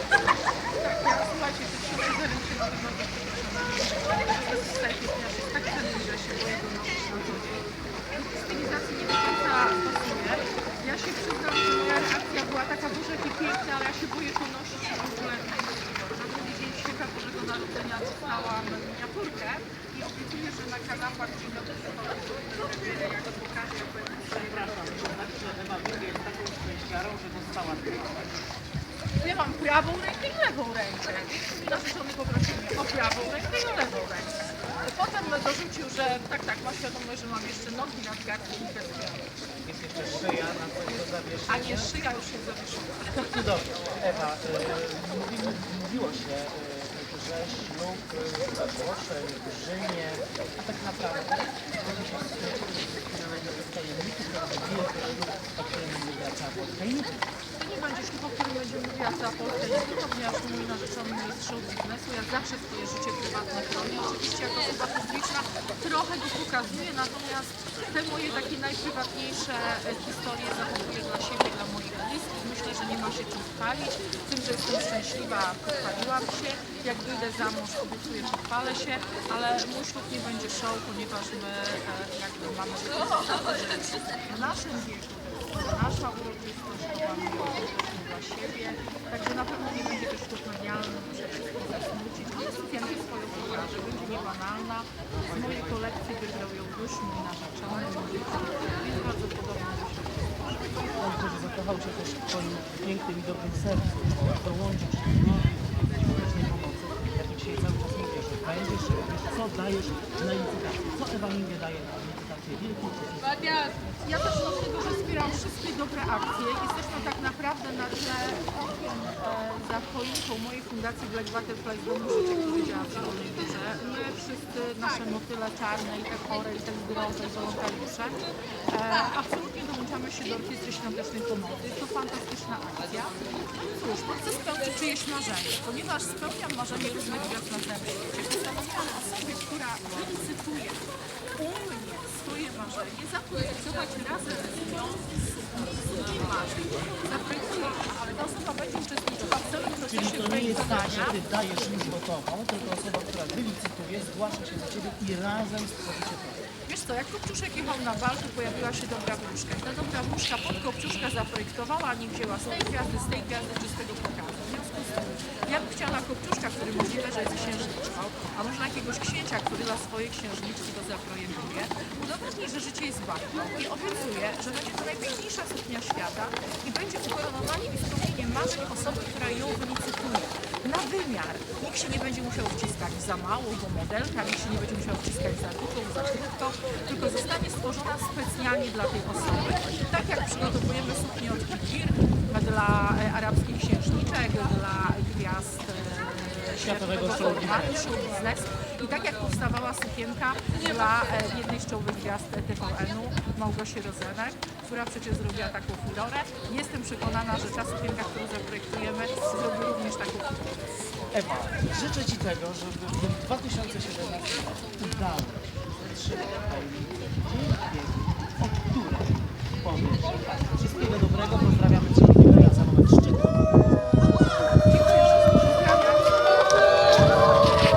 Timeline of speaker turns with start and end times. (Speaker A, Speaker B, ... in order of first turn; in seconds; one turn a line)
Speaker A: 0.5-25.3
Speaker B: 24.3-28.4
Speaker A: 29.2-39.3
Speaker B: 39.6-41.9
Speaker A: 41.5-43.4
Speaker B: 43.3-57.3
Speaker A: 57.6-100.6
Speaker B: 100.9-113.9
Speaker A: 114.0-151.2
Speaker B: 149.9-156.5
Speaker A: 156.7-210.6
Speaker B: 196.6-197.9
Speaker B: 211.1-224.0
Speaker A: 224.6-226.4